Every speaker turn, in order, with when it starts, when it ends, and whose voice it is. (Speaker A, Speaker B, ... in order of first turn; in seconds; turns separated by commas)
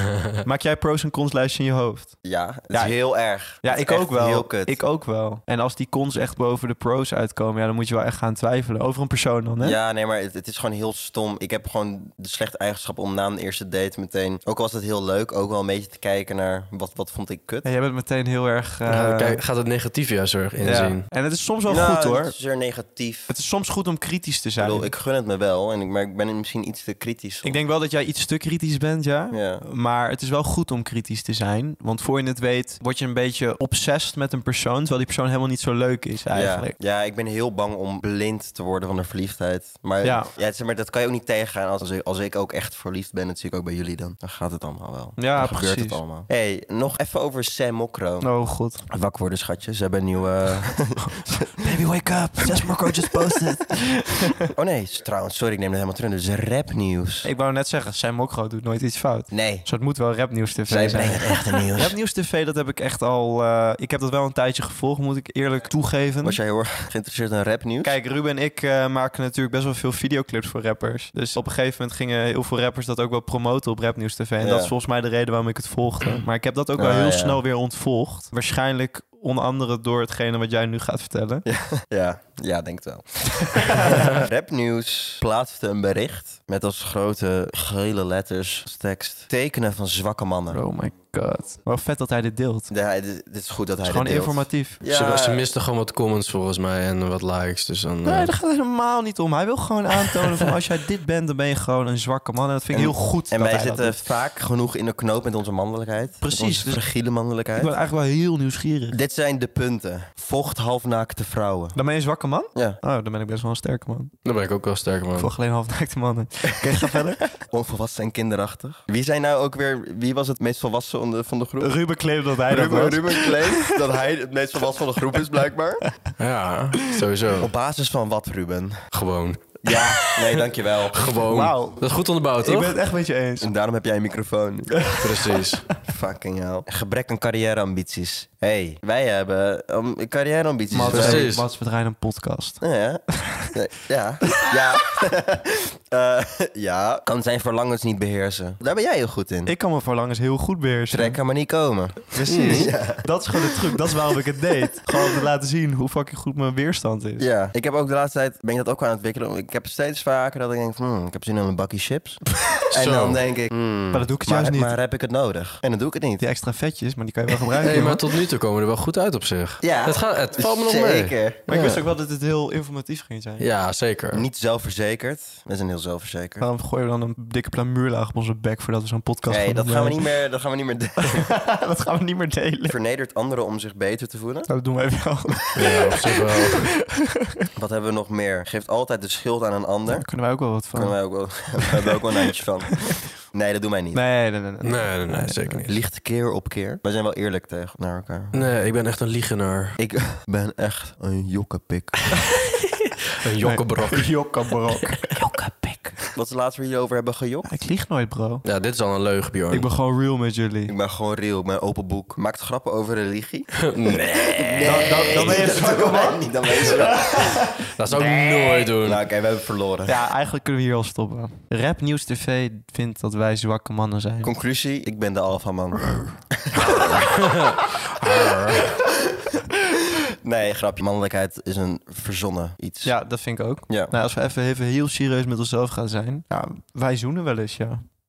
Speaker A: 0.4-9.8, Speaker B: 2.2-4.8, Speaker B: 9.6-17.7, Speaker A: 17.6-19.4, Speaker C: 18.9-21.1, Speaker A: 20.6-22.3, Speaker B: 21.7-23.3, Speaker A: 23.3-24.9, Speaker B: 24.6-27.6, Speaker A: 27.4-36.7, Speaker B: 29.3-29.6, Speaker B: 36.3-48.3, Speaker A: 40.0-40.3, Speaker A: 45.2-46.0, Speaker A: 48.2-48.8, Speaker B: 48.9-51.8, Speaker A: 51.6-54.5, Speaker B: 52.4-53.8, Speaker B: 54.5-57.3, Speaker A: 57.2-66.4, Speaker B: 59.3-59.7, Speaker B: 60.7-62.0, Speaker B: 66.2-68.0, Speaker A: 67.8-81.5, Speaker B: 74.4-74.7, Speaker B: 76.8-77.4, Speaker B: 81.5-90.6, Speaker A: 90.5-92.7, Speaker B: 92.7-95.5, Speaker A: 93.8-94.8, Speaker C: 94.9-98.3, Speaker A: 98.0-104.0, Speaker B: 102.7-107.7, Speaker A: 106.2-106.8, Speaker A: 107.6-109.0, Speaker B: 108.9-111.8, Speaker A: 111.8-114.1, Speaker C: 114.2-115.3, Speaker A: 115.2-117.2, Speaker B: 116.7-121.8, Speaker A: 121.6-123.8, Speaker B: 122.5-125.8, Speaker C: 126.2-127.5, Speaker B: 127.4-128.9, Speaker C: 128.9-132.8, Speaker A: 129.7-130.0, Speaker B: 129.7-131.2, Speaker A: 131.1-131.8, Speaker A: 132.4-133.5, Speaker B: 133.4-134.9, Speaker A: 134.8-135.1, Speaker C: 135.0-135.7, Speaker B: 135.8-141.3, Speaker A: 140.7-142.6, Speaker C: 140.8-141.5, Speaker B: 142.6-149.5, Speaker A: 143.2-143.5, Speaker A: 149.4-151.2, Speaker B: 150.9-154.1, Speaker A: 152.1-157.2, Speaker C: 152.3-152.7, Speaker B: 157.2-166.2, Speaker C: 162.5-163.2, Speaker A: 163.9-164.7, Speaker A: 166.2-168.0, Speaker C: 167.6-171.8, Speaker B: 169.6-171.4, Speaker A: 171.5-173.5, Speaker C: 173.4-174.3, Speaker B: 174.1-176.4, Speaker A: 176.4-180.1, Speaker B: 179.3-181.3, Speaker A: 181.0-182.8, Speaker B: 182.7-184.5, Speaker A: 184.5-187.2, Speaker C: 185.6-186.7, Speaker B: 187.6-190.1, Speaker A: 189.9-191.9, Speaker B: 190.7-194.0, Speaker A: 193.9-195.7, Speaker C: 194.6-195.7, Speaker B: 195.7-198.4, Speaker C: 198.3-199.8, Speaker B: 199.8-202.1, Speaker A: 202.1-202.9, Speaker C: 203.2-204.2, Speaker A: 203.4-205.2, Speaker B: 205.1-207.5, Speaker A: 207.4-208.4, Speaker C: 208.4-209.7, Speaker A: 209.5-210.7, Speaker B: 210.7-220.0, Speaker C: 213.7-215.0, Speaker A: 214.6-217.7, Speaker C: 217.8-219.0, Speaker A: 219.9-224.3, Speaker B: 224.2-227.2, Speaker C: 227.2-228.8, Speaker B: 228.7-232.9, Speaker A: 232.8-237.8